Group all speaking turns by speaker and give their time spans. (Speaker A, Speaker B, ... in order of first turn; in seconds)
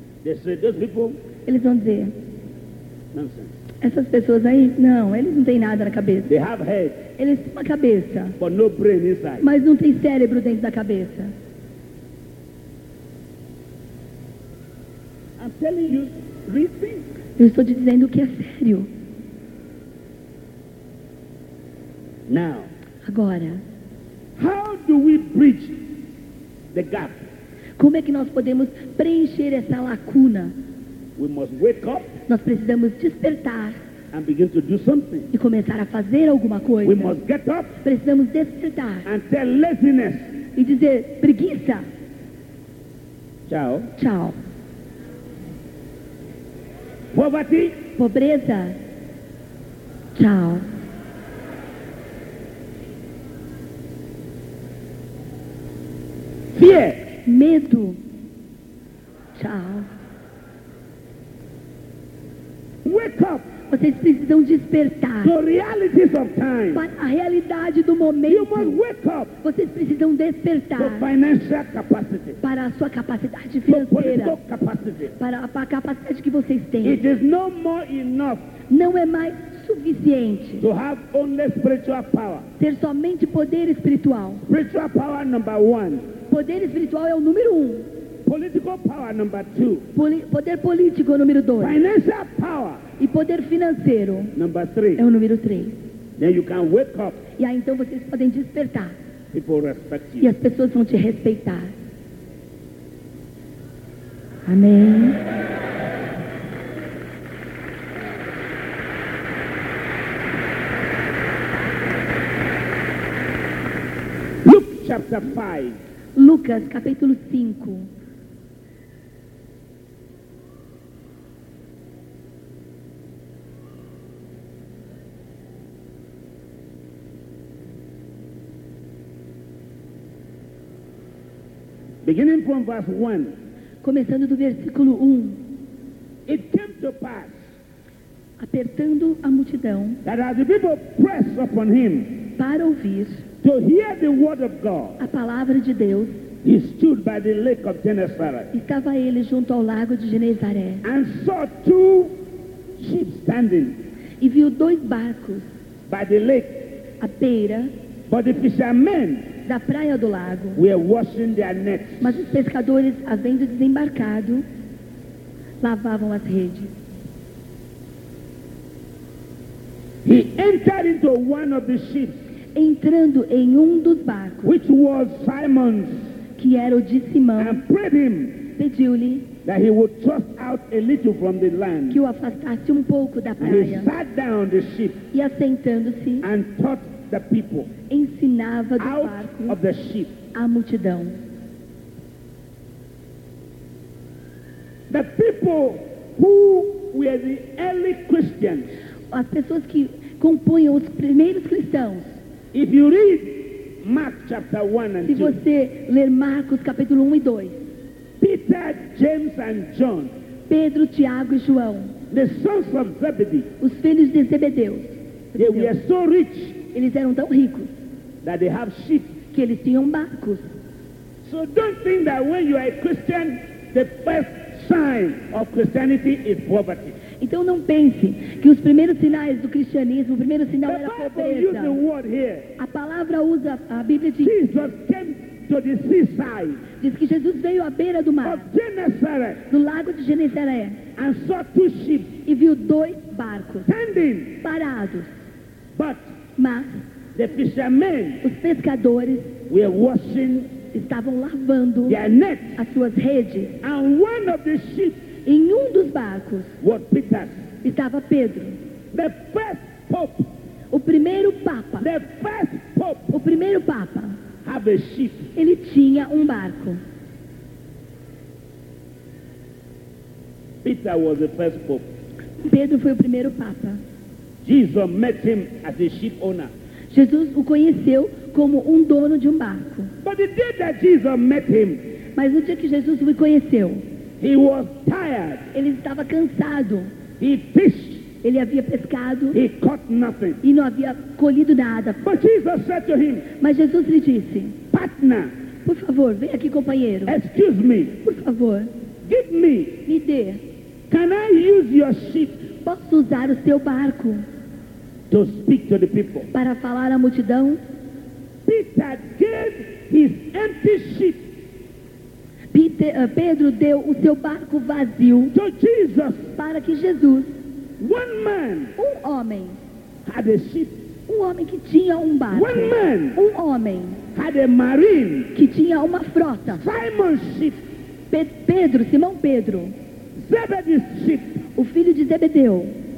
Speaker A: 0.2-1.2, 3.1-3.5, 6.3-7.0, 8.4-9.5, 15.4-17.1, 22.3-22.7, 24.4-25.9, 26.7-27.2, 31.2-32.2, 34.1-35.3, 36.8-37.8, 39.0-40.3, 43.5-43.9, 47.1-47.8, 56.5-57.0, 62.8-63.5, 65.2-66.8, 68.3-69.3, 70.8-72.4, 73.7-75.2, 76.8-78.5, 80.6-82.5, 84.5-86.1, 88.3-89.9, 91.6-92.8, 94.3-95.0, 96.2-97.2, 99.3-100.3, 114.4-115.8, 132.0-133.4, 136.3-137.4, 140.0-142.3, 143.4-145.0, 146.4-148.5, 150.8-152.2, 152.8-153.8, 155.9-156.7, 158.1-159.3, 160.6-162.2, 170.1-172.2, 174.4-176.1, 177.4-178.5, 179.4-182.0, 183.4-185.0, 186.2-187.7, 188.8-190.2, 194.9-198.7, 202.5-205.4, 208.2-210.1, 212.1-213.5, 215.4-216.6, 218.2-219.2, 221.2-227.0, 230.7-232.5, 234.2-236.6, 238.2-239.4, 241.0-242.2, 243.7-244.4, 245.8-246.1, 247.2-248.2, 249.5-250.6, 251.9-252.6, 253.6-255.0, 256.6-257.4, 258.9-260.3, 261.8-263.2, 264.4-265.3, 270.6-271.9, 274.4-276.5, 280.0-281.9, 284.2-285.5, 287.2-288.1, 289.3-290.4, 292.0-293.3, 294.7-295.3, 297.1-298.0, 299.1-299.8, 300.9-302.4, 305.1-306.3, 308.5-311.3, 315.3-316.3, 317.8-318.8, 320.1-320.8, 322.3-323.2, 324.1-325.3, 326.5-327.6, 330.1-331.4
Speaker B: 1.5-2.1, 3.8-6.3, 7.2-8.4, 9.4-11.3, 17.4-18.9, 23.0-23.6, 27.8-30.5, 32.3-33.8, 35.3-37.2, 37.8-39.1, 40.6-41.9, 44.0-44.4, 48.0-48.8, 50.1-50.7, 57.2-58.0, 59.4-59.9, 63.7-65.3, 66.7-68.8, 69.4-71.1, 72.4-74.4, 75.2-77.0, 78.7-80.7, 82.6-84.5, 86.3-87.9, 89.9-91.8, 93.0-94.3, 95.0-95.8, 97.4-99.0, 100.2-101.7, 104.5-105.2, 116.2-117.9, 133.8-135.4, 138.4-140.0, 142.4-143.2, 145.0-146.2, 148.5-150.8, 154.2-155.5, 157.0-157.7, 159.5-160.6, 162.0-164.4, 165.6-166.7, 172.6-174.5, 176.4-177.6, 178.6-179.3, 181.9-183.9, 185.1-186.3, 187.9-189.6, 190.3-191.2, 199.1-202.2, 205.1-207.6, 210.5-211.9, 213.6-215.7, 216.7-217.7, 219.3-220.5, 227.2-231.8, 232.6-234.4, 236.8-238.5, 239.5-240.8, 242.3-243.7, 244.4-245.1, 246.4-246.8, 248.2-249.4, 250.7-252.0, 252.6-253.6, 255.3-256.5, 257.6-258.6, 260.7-261.9, 263.1-264.2, 265.4-266.8, 272.4-273.8, 276.9-279.9, 282.2-283.8, 285.5-286.9, 288.2-289.4, 290.4-292.1, 293.4-294.6, 295.6-297.2, 298.0-298.7, 299.9-300.4, 302.6-304.2, 306.3-307.6, 312.5-315.3, 316.4-317.4, 318.8-319.6, 321.1-324.0, 325.3-326.6, 328.1-329.7, 331.6-332.8